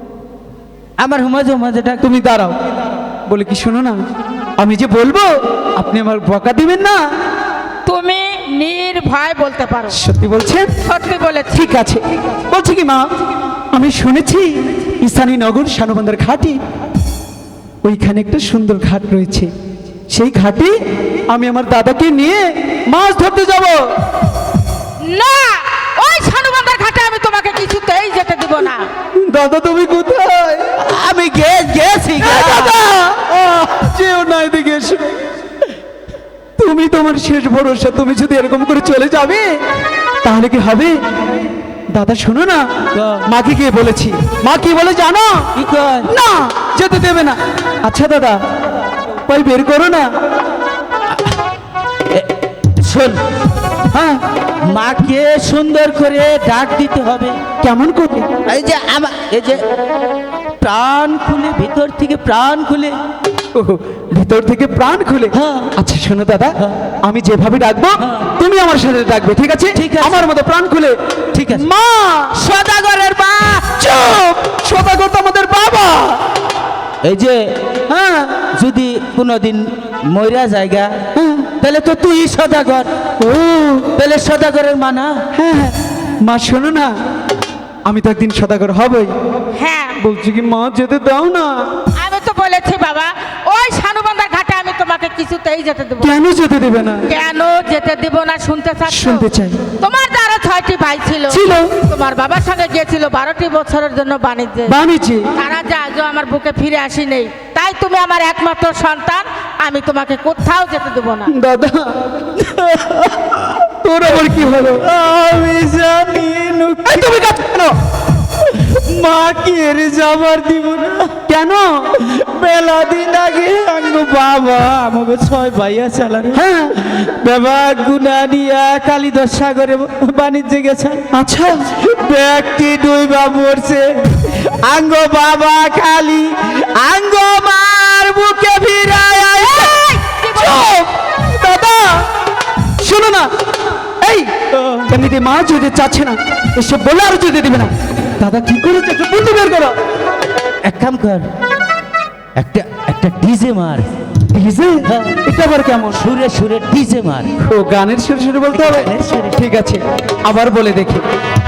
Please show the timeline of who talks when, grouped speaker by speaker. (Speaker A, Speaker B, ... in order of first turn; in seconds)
Speaker A: 1.0-2.0, 30.8-32.8, 43.0-43.3, 45.6-46.1, 52.1-53.2, 54.7-57.4, 58.5-59.6, 60.6-63.0, 65.3-65.7, 69.8-70.2, 71.3-71.7, 72.3-73.7, 77.0-77.5, 78.6-81.0, 81.6-82.9, 84.0-85.2, 112.4-117.1, 118.5-121.2, 122.0-131.0, 131.8-139.9, 144.6-144.9, 150.6-151.3, 152.4-153.9, 154.9-155.2, 155.9-157.3, 158.5-159.4
Speaker B: 2.0-2.6, 3.3-4.0, 4.6-7.0, 10.0-10.7, 11.5-13.1, 13.7-16.6, 17.8-19.5, 20.1-20.8, 21.3-23.8, 29.3-30.7, 32.2-35.2, 36.6-39.4, 40.2-41.0, 41.9-42.6, 43.3-45.3, 46.1-48.4, 49.3-50.1, 53.9-54.2, 57.6-58.3, 63.5-71.0, 71.5-72.3, 73.8-76.2, 77.9-78.4, 81.2-81.5, 83.2-83.9, 85.3-86.9, 87.9-89.1, 90.0-91.5, 96.0-97.0, 98.9-99.6, 101.3-101.7, 104.7-105.3, 111.3-112.0, 113.8-114.9, 116.9-117.7, 121.3-121.7, 126.3-126.8, 131.1-131.7, 140.3-142.1, 142.8-143.3, 144.0-144.3, 144.9-149.7, 154.3-156.0, 157.4-161.0
Speaker C: 7.9-10.0, 10.8-11.8, 25.0-28.9, 89.6-90.0, 92.0-96.2, 97.1-99.3, 99.8-104.8, 105.3-111.3, 139.4-140.4